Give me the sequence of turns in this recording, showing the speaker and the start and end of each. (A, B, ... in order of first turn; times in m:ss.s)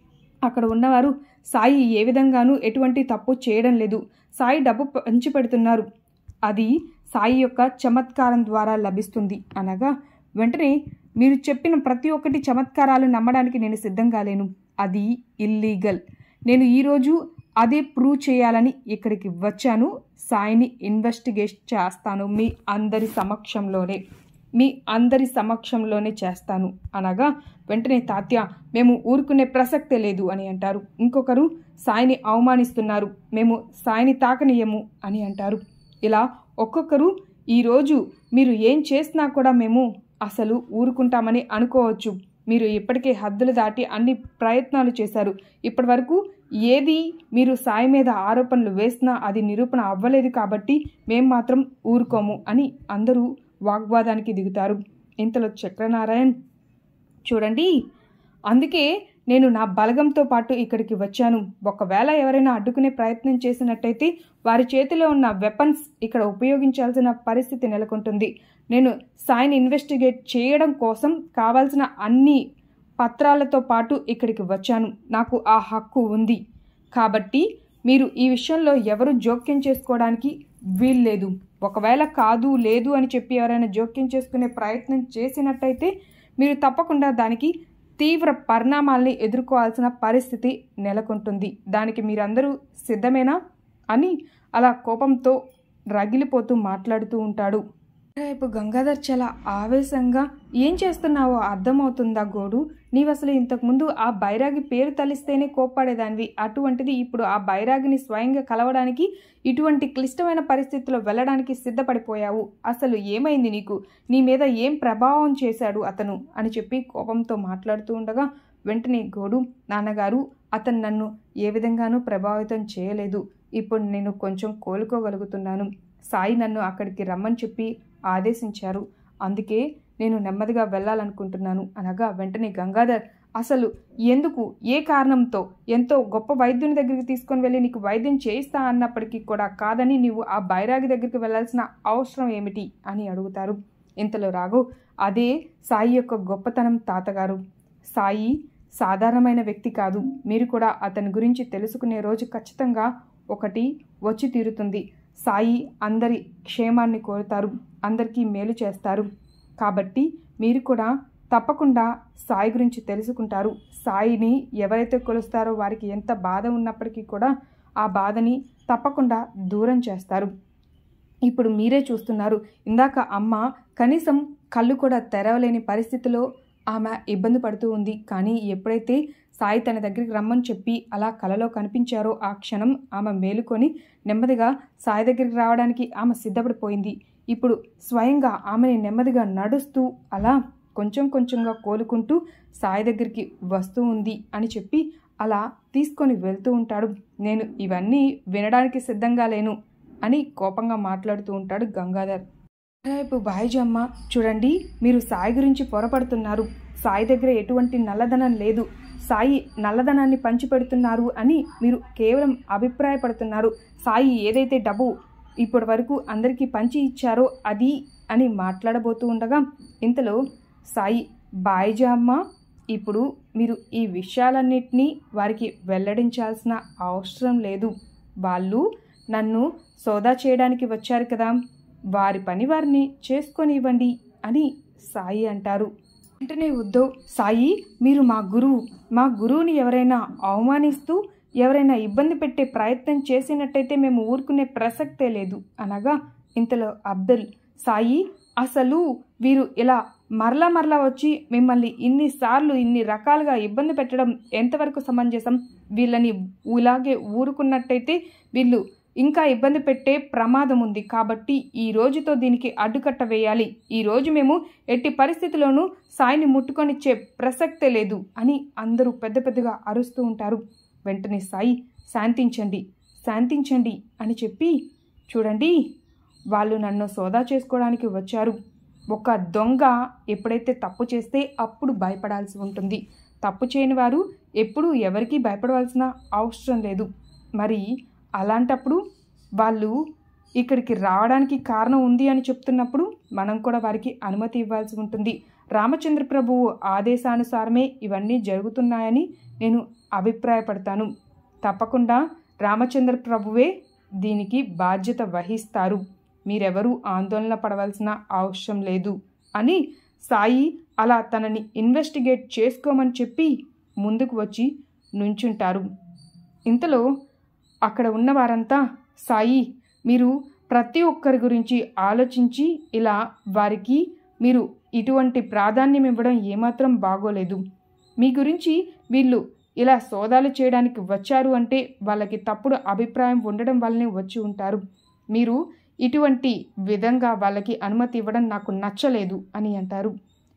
0:00.5-0:05.9 A
0:06.5-0:24.0 A
0:24.6-0:56.4 A
0:57.3-0:57.7 A
0:58.5-1:12.4 A
1:13.0-1:16.4 A
1:17.0-1:33.4 A
1:33.9-1:35.4 A
1:36.0-1:37.6 A
1:38.2-2:27.4 A
2:27.9-2:39.1 A
2:39.6-2:50.3 A
2:51.3-3:22.2 A
3:22.8-3:34.9 A
3:35.4-3:40.2 A
3:40.8-3:42.2 A
3:42.7-3:47.7 A
3:48.2-3:51.4 A
3:52.0-3:55.7 A
3:56.2-4:34.5 A
4:35.1-4:35.6 A
4:36.3-4:38.4 A
4:38.9-4:47.7 A
4:48.2-4:48.8 A
4:49.4-4:49.7 A
4:50.4-5:00.9 A
5:01.4-5:03.5 A
5:04.0-5:13.3 A
5:13.8-5:14.5 A
5:15.0-5:15.6 A
5:16.5-5:16.8 A
5:17.7-5:27.4 A
5:28.0-5:34.6 A
5:35.2-5:39.9 A